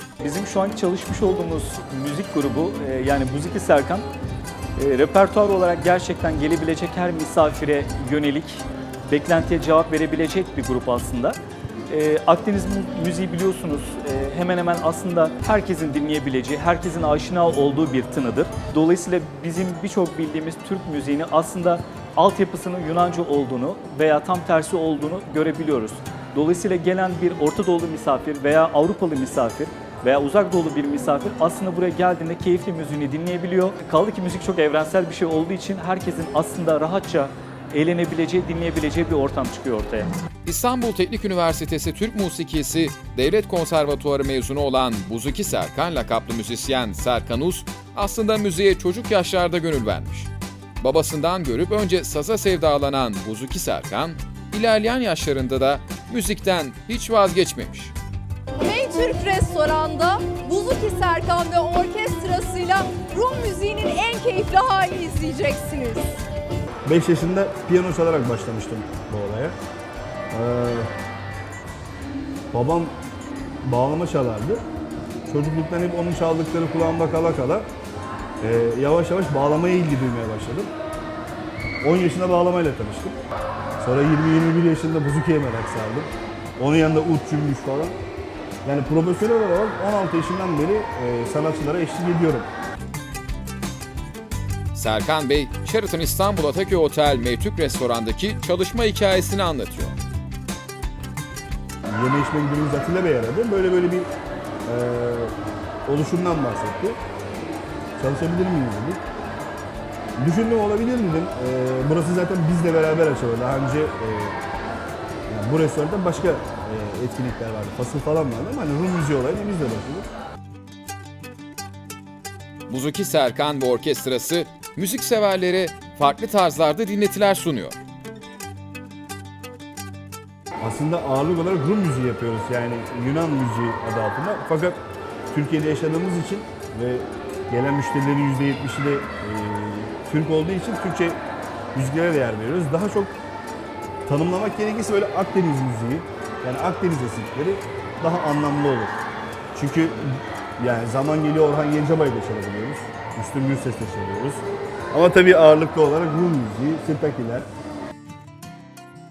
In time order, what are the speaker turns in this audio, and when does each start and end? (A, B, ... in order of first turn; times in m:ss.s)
0:00.2-0:04.1 A
0:04.8-0:40.1 A
0:40.4-0:50.3 B
0:50.8-0:57.9 B
0:58.6-1:06.2 C
1:06.8-1:09.6 D
1:10.3-1:10.9 D
1:12.5-1:12.9 D
1:13.6-1:14.6 D
1:15.3-1:17.6 D
1:18.4-1:20.7 D
1:21.8-1:23.2 D
1:23.8-1:27.9 D
1:28.6-1:32.5 D
1:34.7-1:40.0 B
1:41.9-1:44.1 D
1:44.6-1:45.3 D
1:45.8-1:47.0 D
1:48.0-1:49.0 D
1:50.2-1:54.4 D
1:55.3-2:00.1 D
2:02.7-2:07.8 B
2:10.6-2:14.8 D
2:15.3-2:21.2 D
2:21.7-2:23.1 D
2:24.0-2:29.0 D
2:29.5-2:37.4 D